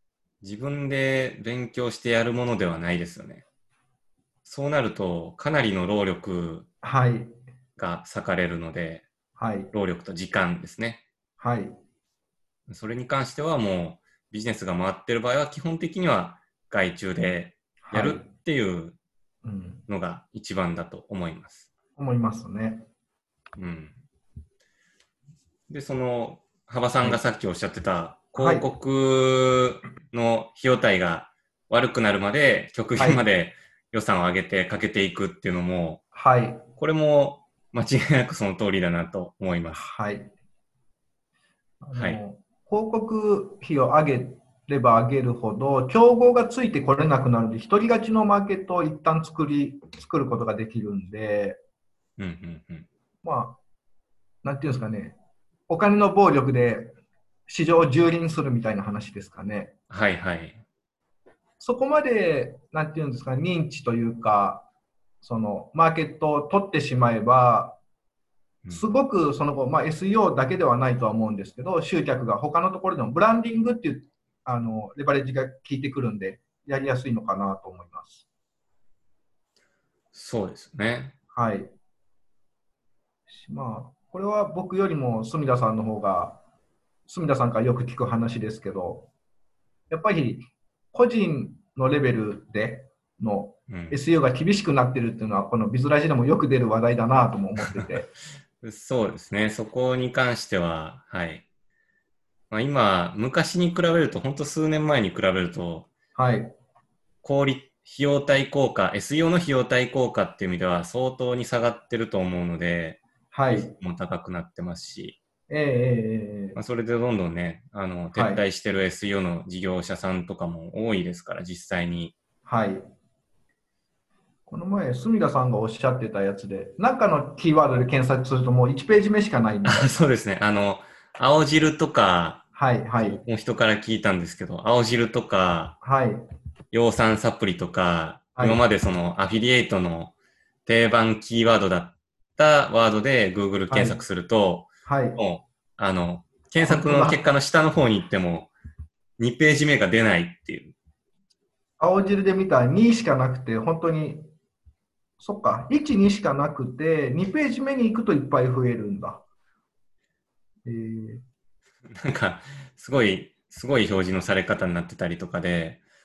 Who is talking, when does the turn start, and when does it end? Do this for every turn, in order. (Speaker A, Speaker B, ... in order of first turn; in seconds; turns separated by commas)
Speaker A: 0.4-3.4, Speaker A: 4.5-6.7, Speaker B: 6.8-7.3, Speaker A: 7.8-9.1, Speaker B: 9.4-9.7, Speaker A: 9.7-11.0, Speaker B: 11.4-11.8, Speaker A: 12.7-19.0, Speaker B: 17.8-18.3, Speaker B: 19.4-19.9, Speaker A: 19.9-21.7, Speaker B: 22.0-22.9, Speaker A: 23.6-24.0, Speaker A: 25.7-36.0, Speaker B: 28.4-28.7, Speaker B: 33.0-33.2, Speaker B: 36.1-36.6, Speaker A: 36.8-39.8, Speaker B: 39.7-40.3, Speaker B: 41.8-51.6, Speaker A: 41.9-42.2, Speaker A: 52.2-52.9, Speaker B: 53.2-53.6, Speaker B: 54.4-55.2, Speaker B: 55.7-56.9, Speaker B: 57.5-59.7, Speaker A: 59.9-60.6, Speaker B: 61.6-64.7, Speaker B: 65.2-67.8, Speaker A: 68.6-69.0, Speaker B: 68.7-78.3, Speaker A: 80.1-81.1, Speaker B: 81.3-81.7, Speaker B: 83.3-86.4, Speaker B: 87.1-89.1, Speaker B: 89.9-98.1, Speaker A: 93.7-94.0, Speaker A: 98.6-101.5, Speaker A: 102.5-105.9, Speaker B: 106.2-106.5, Speaker A: 107.2-113.0, Speaker B: 113.3-113.7, Speaker A: 113.5-115.2, Speaker B: 115.5-116.6, Speaker A: 116.5-122.2, Speaker B: 118.1-118.4, Speaker B: 122.5-122.9, Speaker B: 124.5-129.9, Speaker A: 129.7-132.4, Speaker B: 132.6-133.2, Speaker A: 133.0-135.8, Speaker B: 135.8-136.3, Speaker A: 136.7-140.1, Speaker B: 138.4-138.6, Speaker A: 140.7-148.5, Speaker B: 143.7-144.0, Speaker B: 144.9-145.2, Speaker B: 146.6-147.2, Speaker A: 149.2-150.7, Speaker B: 151.8-154.3, Speaker B: 155.2-159.2, Speaker B: 160.7-161.2, Speaker A: 162.0-165.8